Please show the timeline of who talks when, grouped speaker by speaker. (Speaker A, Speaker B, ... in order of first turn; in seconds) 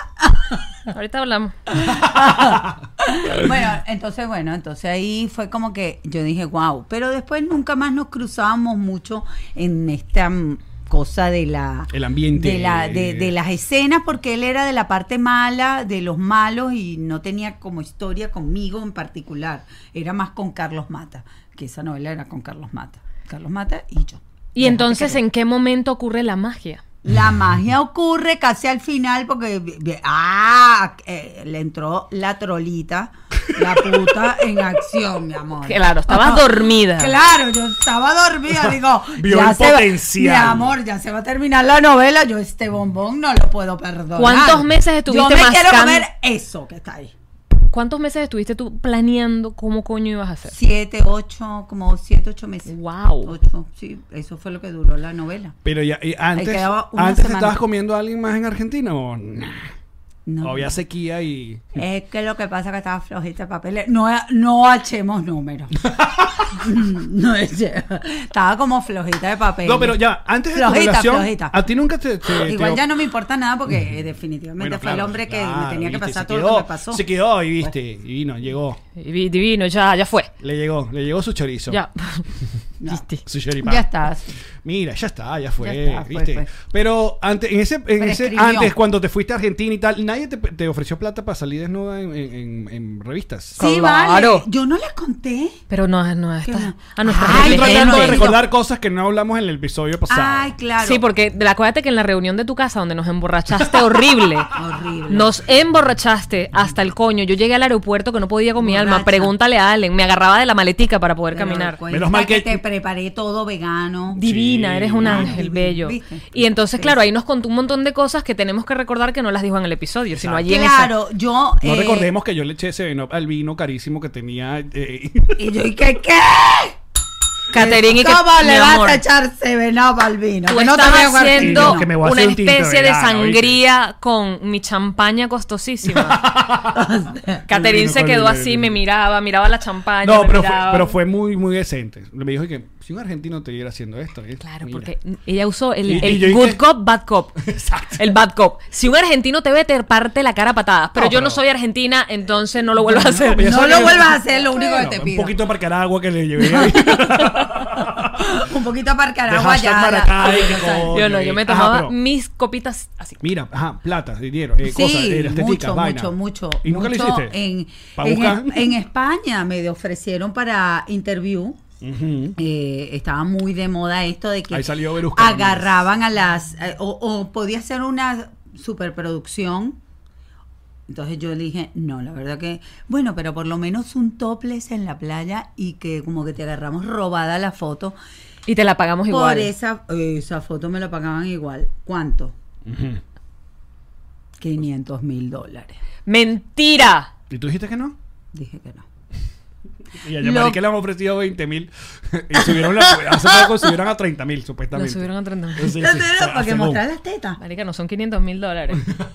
Speaker A: 0.2-0.7, 1.7-25.2, 27.0-47.1, 50.5-55.6, 56.4-57.6, 60.3-60.8, 61.8-65.9, 66.5-70.0, 70.5-71.5, 72.3-77.0, 83.6-84.4, 85.6-86.5, 88.0-88.7, 93.6-95.6, 96.5-98.4, 100.1-101.0, 104.5-105.4, 108.6-109.3, 111.3-114.2, 115.0-117.0, 120.5-122.1, 125.4-126.8, 127.5-131.9, 136.7-137.4, 153.3-155.4, 156.4-157.0, 158.2-161.0, 164.6-171.6, 172.4-179.8, 180.9-188.0, 189.1-192.3, 194.4-195.8, 198.3-198.8, 200.2-200.6, 202.4-203.6, 205.8-207.4
Speaker B: 0.9-1.6, 24.6-26.8, 35.7-37.2, 44.2-46.1, 47.7-50.6, 52.7-53.3, 79.0-80.3, 81.7-82.3, 82.9-83.2, 93.6-94.5, 95.7-98.3, 100.8-104.5, 105.1-111.8, 114.2-120.9, 127.5-129.0, 130.5-136.2, 137.5-140.9, 144.4-147.4, 148.0-154.1, 160.9-163.2, 188.5-189.5, 196.1-197.1, 204.7-205.8, 207.4-208.9
Speaker C: 2.1-2.7, 11.9-13.3, 33.6-34.0, 38.5-40.8, 55.6-59.7, 60.4-61.8, 66.0-66.4, 69.6-72.8, 74.6-78.8, 80.4-81.8, 83.3-83.9, 84.6-93.6, 97.2-100.5, 111.9-112.6, 114.2-115.4, 120.1-120.5, 121.6-125.4, 131.3-133.6, 135.8-136.9, 137.5-138.8, 140.0-144.9, 145.8-146.6, 147.4-148.1, 150.9-151.4, 152.8-158.4, 159.3-161.9, 163.2-167.4, 168.0-168.8, 171.8-172.4, 174.5-175.9, 192.7-193.0, 197.3-198.0, 200.0-206.8